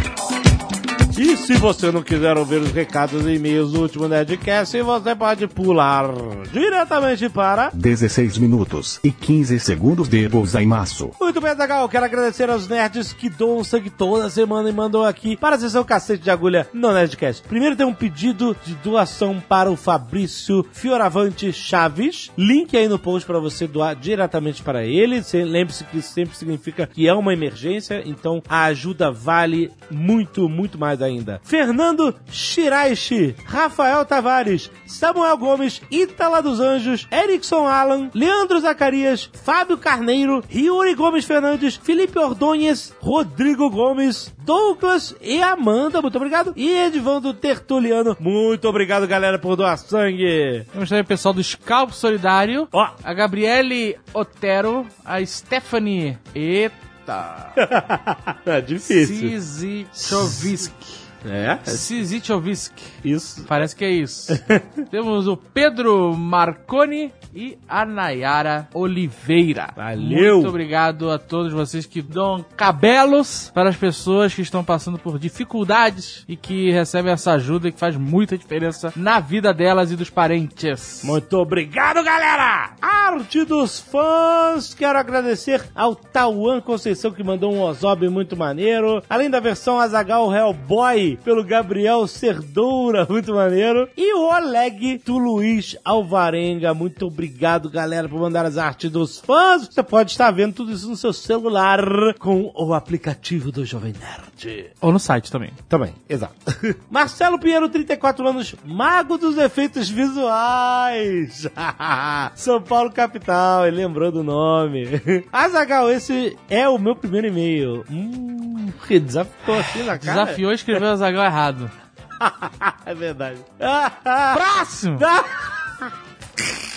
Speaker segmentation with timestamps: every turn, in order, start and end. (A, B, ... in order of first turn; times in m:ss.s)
0:01.1-0:07.7 A
0:07.7-0:11.1 B
0:11.2-0:50.7 A
0:50.7-0:57.6 C
0:57.6-0:59.4 A
0:58.9-1:01.0 C
1:00.0-1:00.5 A
1:01.2-1:01.9 A
1:01.7-1:02.9 C
1:03.0-1:03.6 A
1:03.4-1:21.2 C
1:04.3-1:04.7 A
1:09.8-1:10.6 A
1:21.0-1:44.7 A
1:44.8-1:45.6 C
1:45.7-2:00.8 A
1:59.9-2:01.7 C
2:02.2-2:05.9 A
2:04.3-2:05.0 C